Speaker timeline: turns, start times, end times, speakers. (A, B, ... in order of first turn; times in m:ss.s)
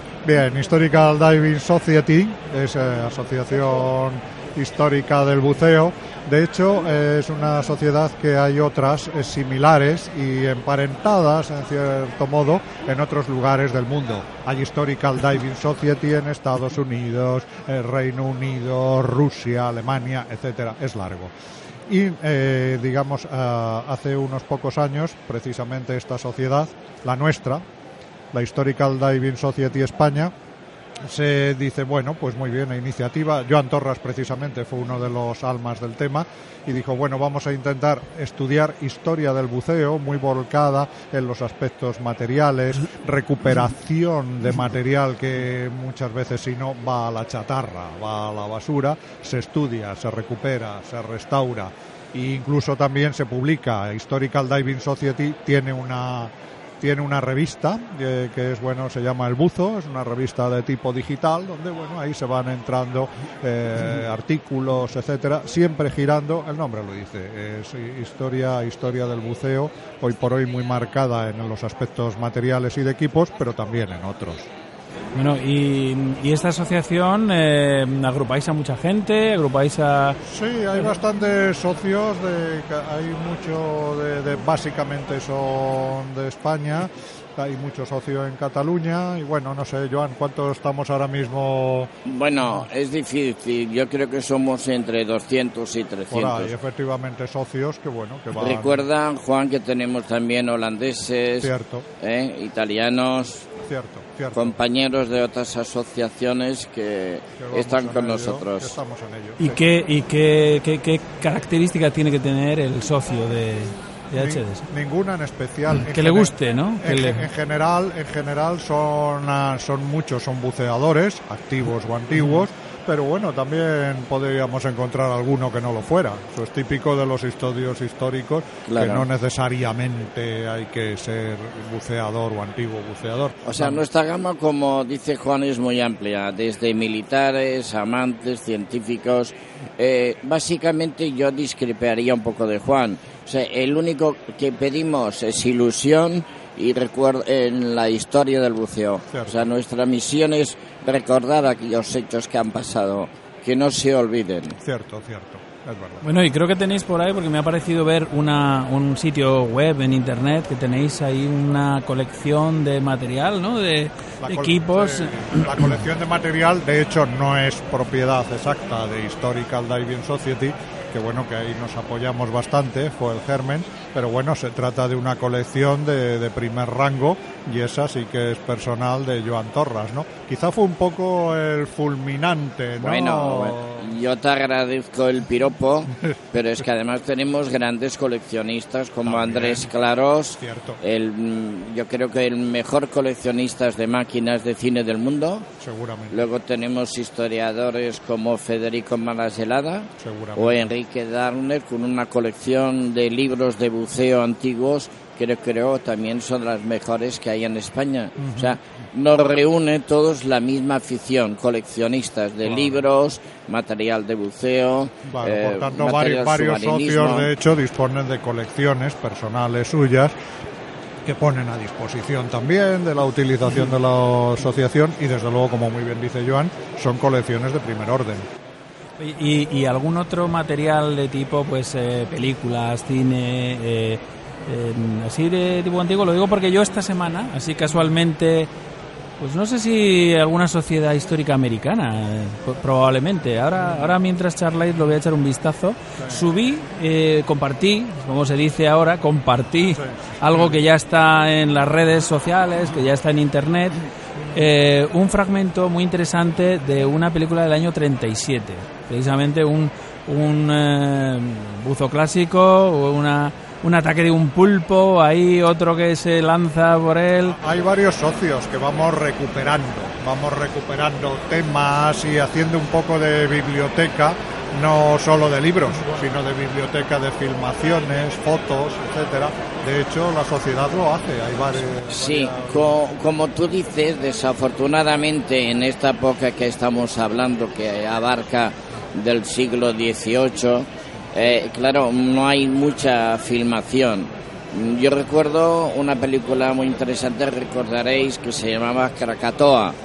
0:00.2-0:21.3 A
0:21.9-0:27.6 A
0:28.3-0:30.3 A
0:31.0-1:14.5 A
1:15.1-1:20.2 B
1:20.3-1:31.9 A
1:32.0-1:36.5 C
1:36.1-1:38.8 A
1:38.3-1:43.5 C
1:41.4-1:41.8 A
1:43.6-1:44.5 A
1:44.3-1:48.8 C
1:47.4-1:49.6 A
1:49.4-1:54.6 B
1:54.2-2:13.8 A
1:55.8-1:57.2 B
2:08.7-2:09.0 C
2:13.4-2:34.6 C
2:34.6-2:36.0 A
2:36.0-2:45.4 B
2:44.2-3:03.8 A
3:02.8-3:15.5 C
3:09.0-3:09.7 A
3:10.4-3:10.8 A
3:15.6-3:16.2 A
3:16.1-3:37.3 C
3:20.0-3:20.7 A
3:28.2-3:28.6 A
3:32.4-3:32.8 A
3:35.1-3:40.1 A
3:41.0-3:48.3 A
3:49.0-3:58.5 B
3:59.2-4:13.8 B
4:09.8-4:10.5 A
4:14.3-4:27.4 B
4:27.4-4:42.7 A
4:41.9-4:59.8 C